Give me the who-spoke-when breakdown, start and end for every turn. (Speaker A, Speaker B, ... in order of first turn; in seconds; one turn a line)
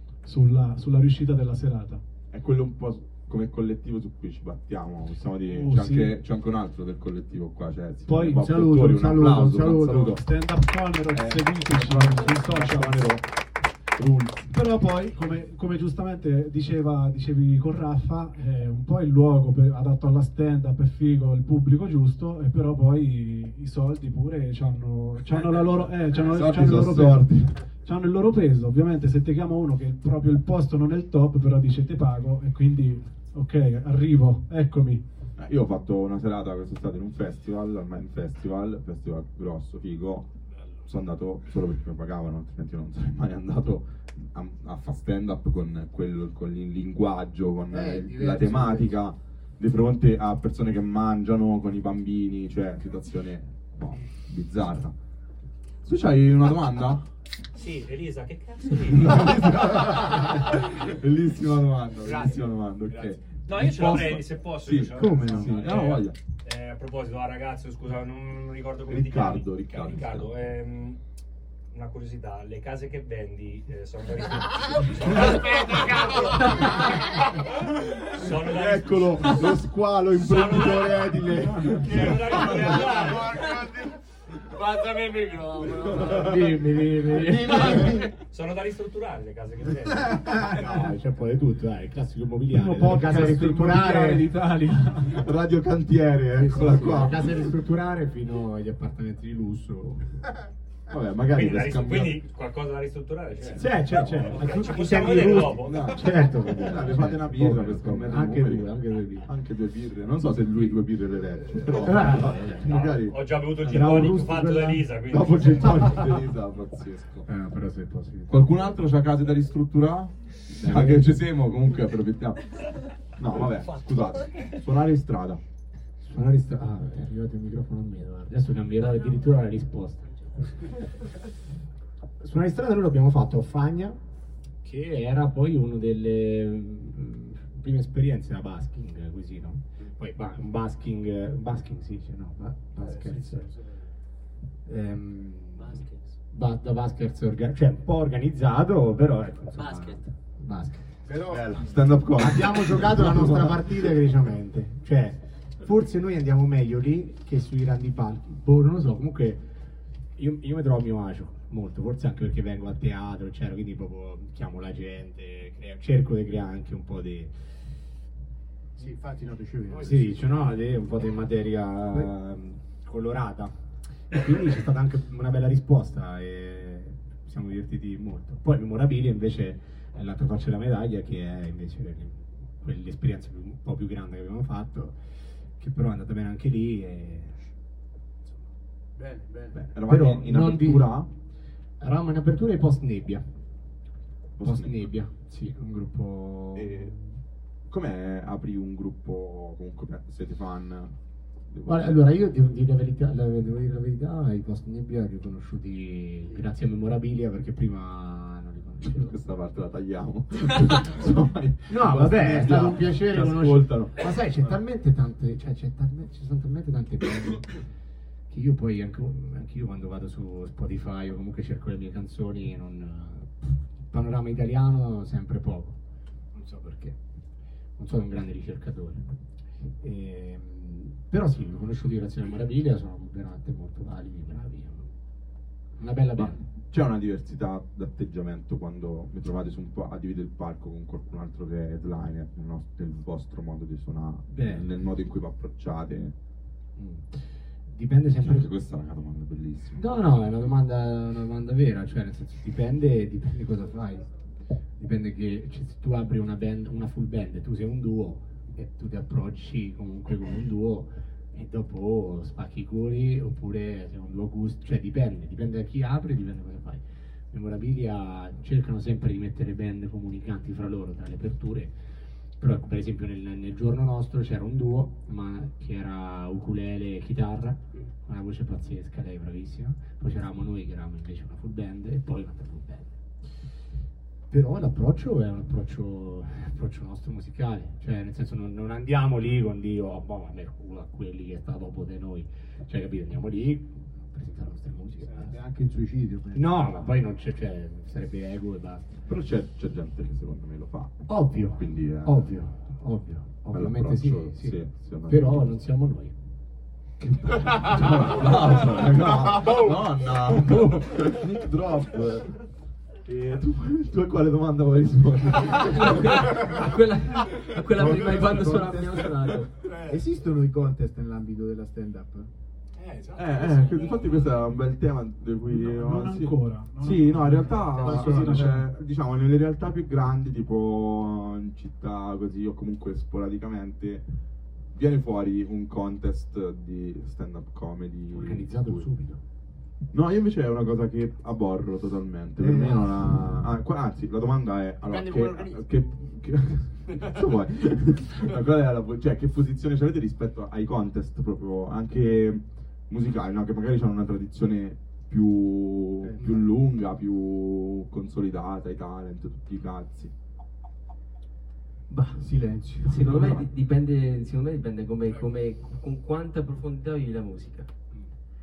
Speaker A: 0.2-2.0
Speaker B: 2.3-10.2
Speaker A: 5.5-6.2
Speaker A: 8.1-8.5
Speaker C: 8.4-10.2
Speaker A: 10.2-13.1
Speaker B: 11.1-13.3
Speaker B: 13.9-14.4
Speaker A: 14.5-35.0
Speaker B: 26.1-27.6
Speaker B: 35.4-40.3
Speaker B: 40.8-54.9
Speaker C: 47.7-49.0
Speaker B: 55.8-57.0
Speaker D: 57.5-60.7
Speaker B: 58.8-66.2
Speaker E: 62.0-63.2
Speaker D: 63.4-71.0
Speaker C: 64.9-65.5
Speaker B: 68.9-70.3
Speaker D: 71.7-77.5
Speaker E: 75.0-77.1
Speaker B: 77.9-83.1
Speaker D: 78.0-83.4
Speaker E: 82.6-88.1
Speaker B: 85.9-86.4
Speaker B: 87.0-88.2
Speaker D: 87.7-90.3
Speaker E: 90.3-95.2
Speaker C: 90.4-90.8
Speaker A: 92.5-94.3
Speaker B: 95.0-97.5
Speaker E: 96.3-100.3
Speaker B: 100.9-102.2
Speaker D: 101.3-105.9
Speaker E: 103.4-109.3
Speaker B: 105.6-113.2
Speaker E: 111.6-112.8
Speaker D: 112.6-116.2
Speaker E: 113.6-114.9
Speaker B: 115.1-117.3
Speaker E: 117.2-118.6
Speaker B: 118.3-125.4
Speaker E: 120.5-121.3
Speaker E: 126.0-131.1
Speaker E: 132.2-134.0
Speaker E: 134.6-143.5
Speaker C: 142.8-143.8
Speaker E: 144.7-150.9
Speaker F: 145.6-146.2
Speaker F: 149.6-150.1
Speaker C: 151.1-151.7
Speaker B: 151.3-153.9
Speaker E: 152.2-159.6
Speaker E: 160.2-167.6
Speaker C: 168.8-170.6
Speaker E: 169.7-187.5
Speaker C: 189.0-189.6
Speaker E: 189.5-191.1
Speaker B: 189.6-191.1
Speaker E: 191.8-193.3
Speaker B: 194.4-194.9
Speaker E: 194.4-197.1
Speaker B: 196.5-196.9
Speaker B: 197.7-200.9
Speaker B: 201.5-202.0
Speaker E: 201.7-209.2
Speaker B: 208.8-214.6
Speaker E: 211.7-217.6
Speaker E: 218.3-225.8
Speaker E: 226.3-227.0
Speaker E: 227.8-229.1
Speaker E: 229.8-234.9
Speaker E: 235.8-236.4
Speaker B: 236.2-246.1
Speaker E: 244.3-244.7
Speaker E: 246.8-248.5
Speaker B: 248.2-249.8
Speaker E: 249.8-254.1
Speaker E: 254.8-271.8
Speaker E: 272.4-283.0
Speaker E: 284.3-295.4
Speaker C: 295.1-296.9
Speaker E: 296.3-299.0
Speaker B: 299.1-302.4
Speaker E: 301.1-306.1
Speaker B: 303.5-305.5
Speaker B: 307.0-312.5
Speaker E: 307.4-308.1
Speaker B: 313.0-316.1
Speaker F: 315.6-319.6
Speaker C: 317.6-322.3
Speaker E: 319.6-320.0
Speaker E: 322.7-324.5
Speaker B: 323.1-334.1
Speaker A: 325.5-328.7
Speaker F: 327.7-328.5
Speaker B: 334.7-338.9
Speaker E: 338.1-339.2
Speaker B: 339.9-360.1
Speaker C: 342.4-343.5
Speaker E: 344.8-345.6
Speaker E: 346.9-347.2
Speaker C: 356.0-356.5
Speaker F: 361.9-367.7
Speaker C: 362.1-363.4